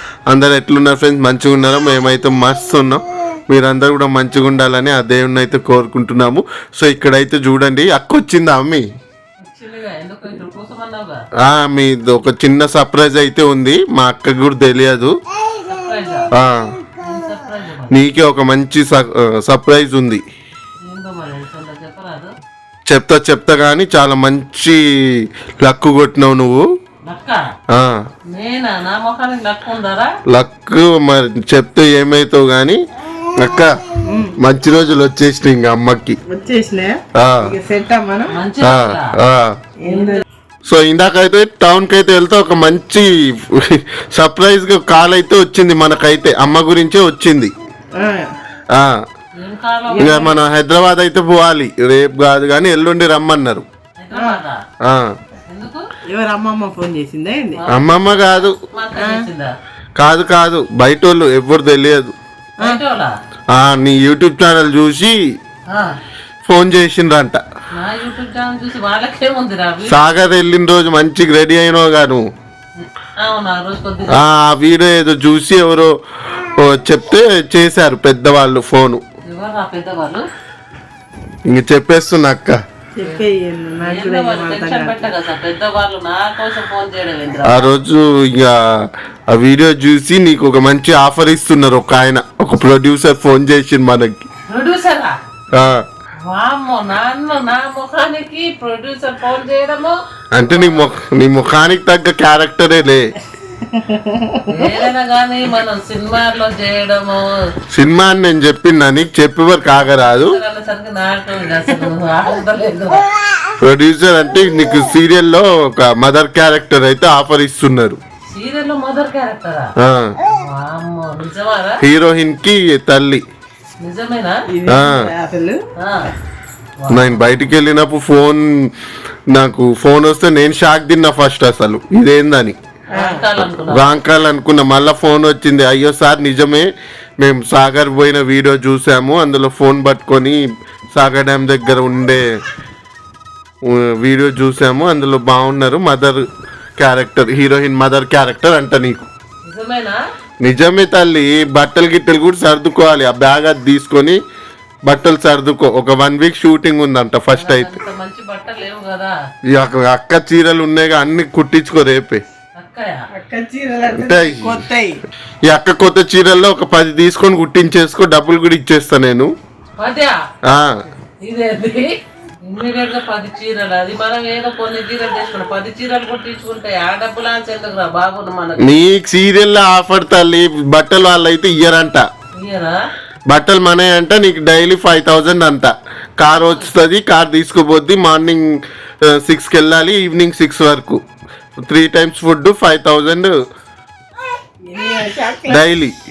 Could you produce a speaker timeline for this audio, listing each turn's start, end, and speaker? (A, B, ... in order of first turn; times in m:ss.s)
0:00.3-0:08.9 A
0:09.4-0:11.2 B
0:11.4-0:15.1 A
0:15.6-0:16.3 B
0:16.3-0:16.7 A
0:17.0-0:18.1 B
0:17.9-0:20.2 A
0:20.8-0:22.3 B
0:22.9-0:26.6 A
0:27.0-0:27.4 B
0:27.7-0:28.0 A
0:28.3-0:30.1 B
0:30.3-0:32.8 A
0:33.4-0:33.7 A
0:34.1-0:34.4 C
0:34.4-0:36.2 A
0:36.3-0:38.3 C
0:37.1-0:37.5 A
0:38.3-0:39.1 B
0:38.6-0:39.6 A
0:39.8-0:40.2 C
0:39.9-0:40.2 B
0:40.6-0:47.5 A
0:48.0-0:48.3 C
0:48.7-0:49.0 A
0:49.4-0:50.3 B
0:49.9-0:50.3 C
0:50.0-0:53.6 A
0:54.0-0:54.6 B
0:54.1-0:54.4 C
0:54.8-0:55.2 A
0:55.5-0:55.9 B
0:56.1-0:57.6 C
0:57.6-0:57.8 B
0:57.7-0:58.6 A
0:58.6-0:59.5 B
0:59.0-0:59.2 C
1:00.0-1:02.1 A
1:02.6-1:03.1 B
1:03.5-1:05.4 A
1:05.7-1:06.0 B
1:06.4-1:07.4 A
1:07.7-1:10.0 B
1:09.8-1:12.2 A
1:12.8-1:14.2 B
1:14.1-1:16.0 A
1:16.5-1:19.0 A
1:19.3-1:20.2 B
1:21.5-1:22.6 A
1:23.0-1:25.0 C
1:23.8-1:27.7 B
1:27.4-1:34.3 A
1:34.5-1:35.2 B
1:35.5-1:35.9 A
1:36.2-1:40.9 B
1:40.3-1:43.1 A
1:43.7-1:44.5 C
1:44.4-1:47.3 B
1:47.7-1:50.4 A
1:49.7-1:53.1 B
1:53.6-1:58.0 A
1:58.3-1:59.7 B
1:59.8-2:00.1 A
2:00.3-2:01.8 B
2:01.8-2:03.2 A
2:03.8-2:04.5 B
2:04.5-2:05.6 C
2:04.7-2:05.1 A
2:05.8-2:06.1 B
2:06.8-2:07.5 B
2:06.9-2:08.7 A
2:09.3-2:12.6 A
2:12.9-2:13.2 C
2:12.9-2:13.9 B
2:13.5-2:20.4 A
2:20.9-2:22.4 A
2:23.6-2:26.3 A
2:26.8-2:29.1 A
2:29.4-2:30.0 B
2:30.4-2:34.2 A
2:34.8-2:37.8 A
2:37.3-2:39.1 B
2:39.5-2:42.2 A
2:42.6-2:43.1 B
2:43.1-2:45.0 C
2:43.9-2:44.6 A
2:45.4-2:49.3 A
2:49.8-2:50.2 B
2:50.4-2:50.8 A
2:51.2-2:51.9 B
2:52.4-2:58.7 B
2:58.6-3:02.1 A
3:02.4-3:02.8 B
3:03.3-3:11.0 A
3:06.3-3:06.7 B
3:11.6-3:13.4 A
3:14.7-3:15.7 C
3:15.5-3:16.0 A